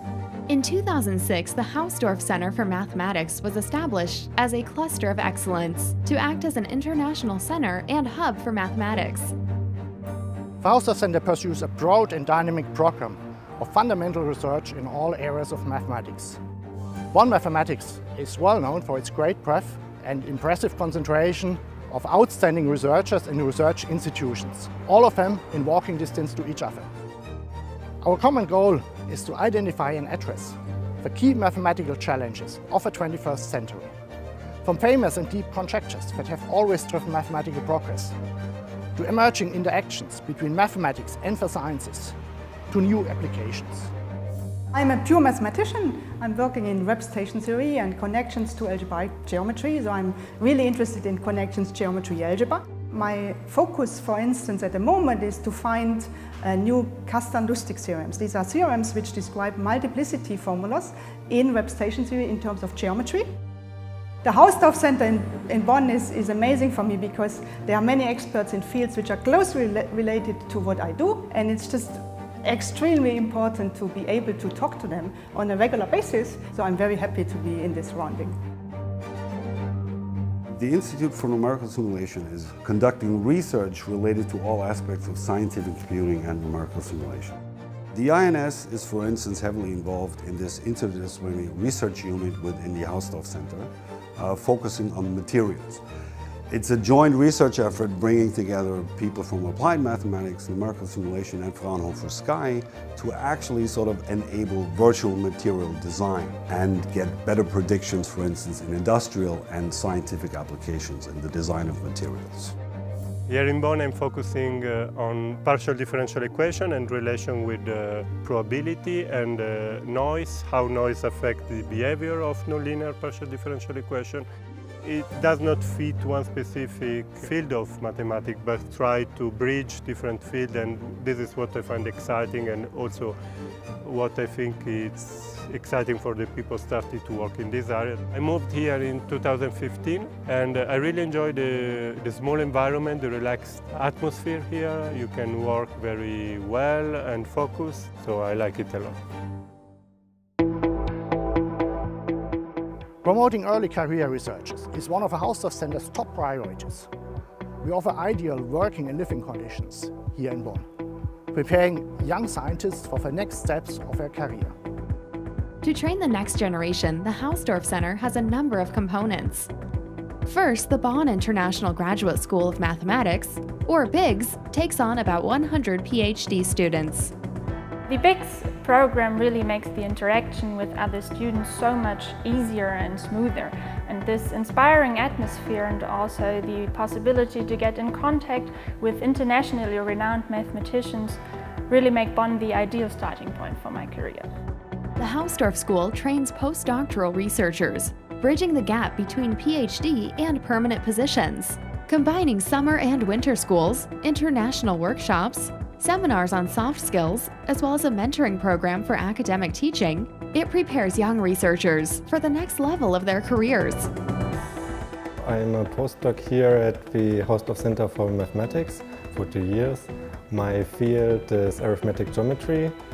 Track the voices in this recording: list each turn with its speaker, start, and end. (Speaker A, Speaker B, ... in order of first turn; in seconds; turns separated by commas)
Speaker A: 0.5-9.3, Speaker B: 10.6-16.4, Speaker B: 17.1-26.9, Speaker B: 28.0-34.0, Speaker B: 34.6-38.1, Speaker B: 39.0-42.1, Speaker B: 42.7-43.9, Speaker C: 44.7-63.3, Speaker C: 64.2-78.3, Speaker D: 80.5-87.4, Speaker D: 87.9-95.8, Speaker D: 96.5-112.6, Speaker E: 113.3-124.2, Speaker E: 124.8-133.2, Speaker E: 133.8-148.9, Speaker B: 153.0-156.9, Speaker B: 157.6-160.7, Speaker B: 161.3-164.6, Speaker A: 165.6-169.5, Speaker A: 170.3-177.1, Speaker F: 177.9-194.3, Speaker A: 195.0-213.9, Speaker G: 215.2-222.8